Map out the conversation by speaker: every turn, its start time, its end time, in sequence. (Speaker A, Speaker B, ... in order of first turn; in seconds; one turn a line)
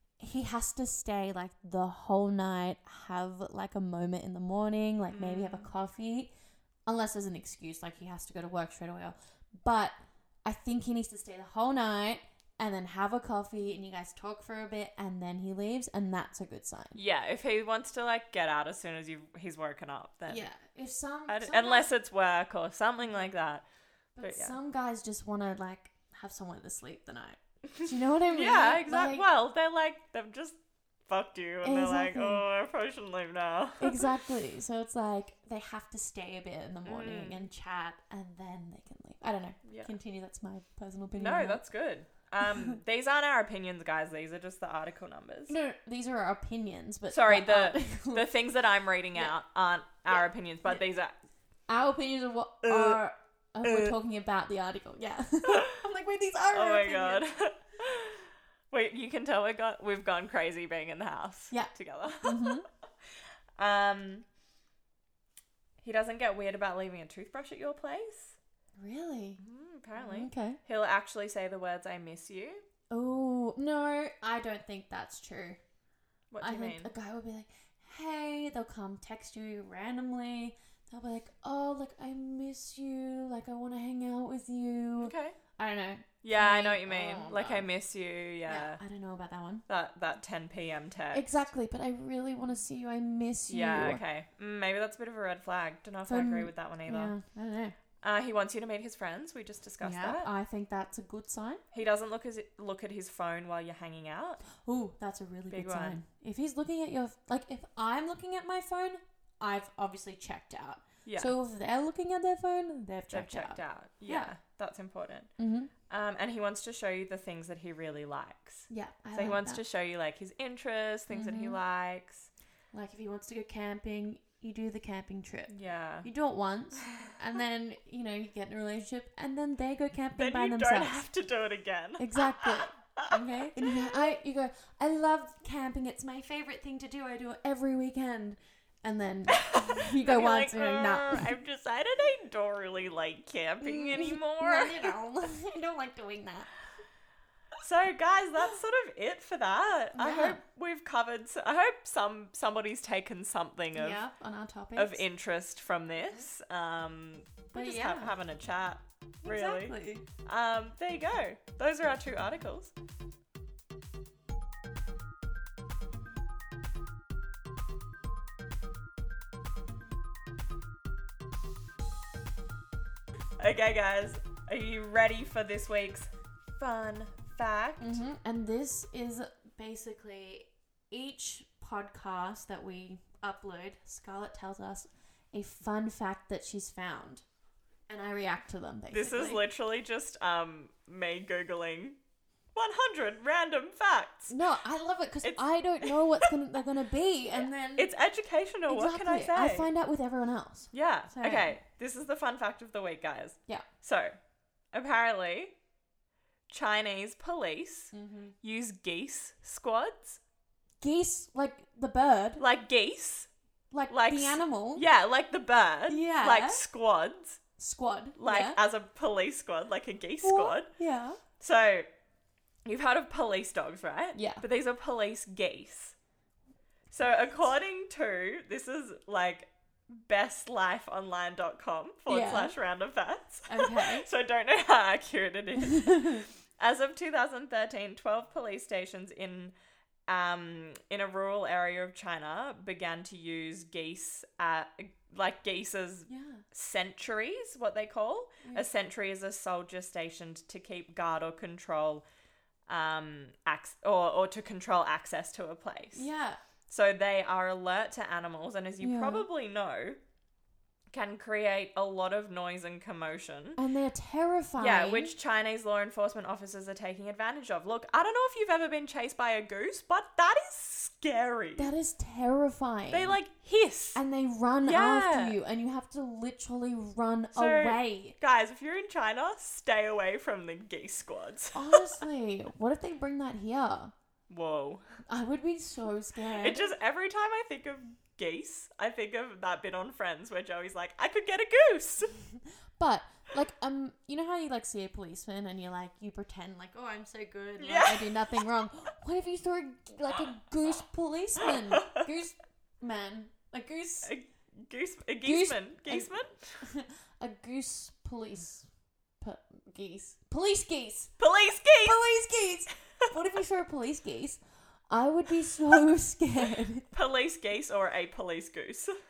Speaker A: 0.2-6.3
Speaker B: 5.1-5.7
Speaker A: 6.9-17.0
Speaker B: 16.9-20.4
Speaker A: 20.3-21.9
Speaker B: 21.3-23.6
Speaker A: 24.1-29.2
Speaker B: 24.2-24.6
Speaker B: 27.7-34.2
Speaker A: 31.6-32.4
Speaker A: 33.8-41.6
Speaker B: 36.9-37.4
Speaker B: 39.6-39.9
Speaker B: 41.1-45.5
Speaker A: 42.5-42.8
Speaker A: 45.5-48.3
Speaker B: 47.1-51.1
Speaker A: 50.1-50.8
Speaker A: 51.7-57.2
Speaker B: 52.6-53.0
Speaker B: 53.6-53.9
Speaker B: 55.5-55.7
Speaker B: 56.5-62.6
Speaker A: 61.5-62.6
Speaker B: 63.6-64.2
Speaker B: 65.8-68.4
Speaker A: 68.8-69.4
Speaker B: 69.4-72.6
Speaker A: 70.0-70.6
Speaker A: 72.9-75.6
Speaker B: 76.3-76.9
Speaker A: 76.4-87.7
Speaker B: 85.0-85.4
Speaker B: 86.2-88.8
Speaker A: 88.5-89.6
Speaker B: 89.7-91.4
Speaker A: 91.1-94.0
Speaker B: 93.5-97.1
Speaker A: 96.0-97.7
Speaker B: 98.0-100.3
Speaker A: 99.8-101.6
Speaker B: 101.7-104.4
Speaker A: 104.5-114.3
Speaker B: 105.5-106.0
Speaker B: 111.0-111.3
Speaker B: 113.1-115.3
Speaker A: 115.4-115.7
Speaker B: 115.9-122.3
Speaker A: 118.7-119.6
Speaker A: 121.1-121.6
Speaker A: 122.7-125.5
Speaker B: 125.5-126.1
Speaker A: 126.0-131.1
Speaker B: 126.8-127.1
Speaker B: 130.2-133.9
Speaker A: 132.0-141.3
Speaker B: 139.3-144.9
Speaker A: 143.6-146.5
Speaker B: 147.6-154.0
Speaker A: 149.9-150.4
Speaker A: 153.7-155.0
Speaker B: 154.8-162.7
Speaker A: 157.5-158.1
Speaker A: 159.2-160.1
Speaker B: 173.4-178.0
Speaker A: 177.8-187.2
Speaker A: 187.9-189.4
Speaker B: 188.9-192.0
Speaker B: 192.5-194.3
Speaker A: 194.3-197.9
Speaker B: 195.2-196.3
Speaker B: 197.3-199.7
Speaker A: 198.7-201.6
Speaker B: 200.7-204.1
Speaker B: 204.7-205.5
Speaker B: 206.5-210.2
Speaker A: 207.9-208.3
Speaker A: 210.8-212.4
Speaker B: 212.4-213.3
Speaker A: 213.7-214.8
Speaker B: 213.9-217.4
Speaker A: 215.9-216.6
Speaker A: 217.6-218.6
Speaker B: 218.2-220.7
Speaker A: 220.2-221.2
Speaker B: 221.4-221.9
Speaker B: 222.6-225.9
Speaker A: 224.1-224.4
Speaker B: 226.9-239.5
Speaker A: 232.1-232.5
Speaker A: 233.5-234.1
Speaker A: 235.7-236.3
Speaker B: 240.1-252.0
Speaker A: 246.1-246.4
Speaker A: 248.4-248.7
Speaker B: 252.7-256.1
Speaker A: 255.9-256.4
Speaker B: 256.7-260.0
Speaker A: 258.8-259.3
Speaker B: 260.9-263.6
Speaker A: 263.6-265.1
Speaker B: 264.6-271.7
Speaker A: 271.6-273.2
Speaker B: 272.9-274.0
Speaker A: 273.9-278.1
Speaker B: 274.6-275.4
Speaker B: 277.3-282.0
Speaker A: 281.5-283.9
Speaker B: 284.3-284.8
Speaker A: 285.1-286.7
Speaker B: 286.4-292.2
Speaker A: 292.8-304.1
Speaker B: 297.6-298.4
Speaker B: 301.4-302.0
Speaker B: 304.0-306.6
Speaker A: 305.2-308.7
Speaker A: 309.2-311.1
Speaker B: 311.2-312.0
Speaker A: 311.8-316.9
Speaker B: 316.9-318.9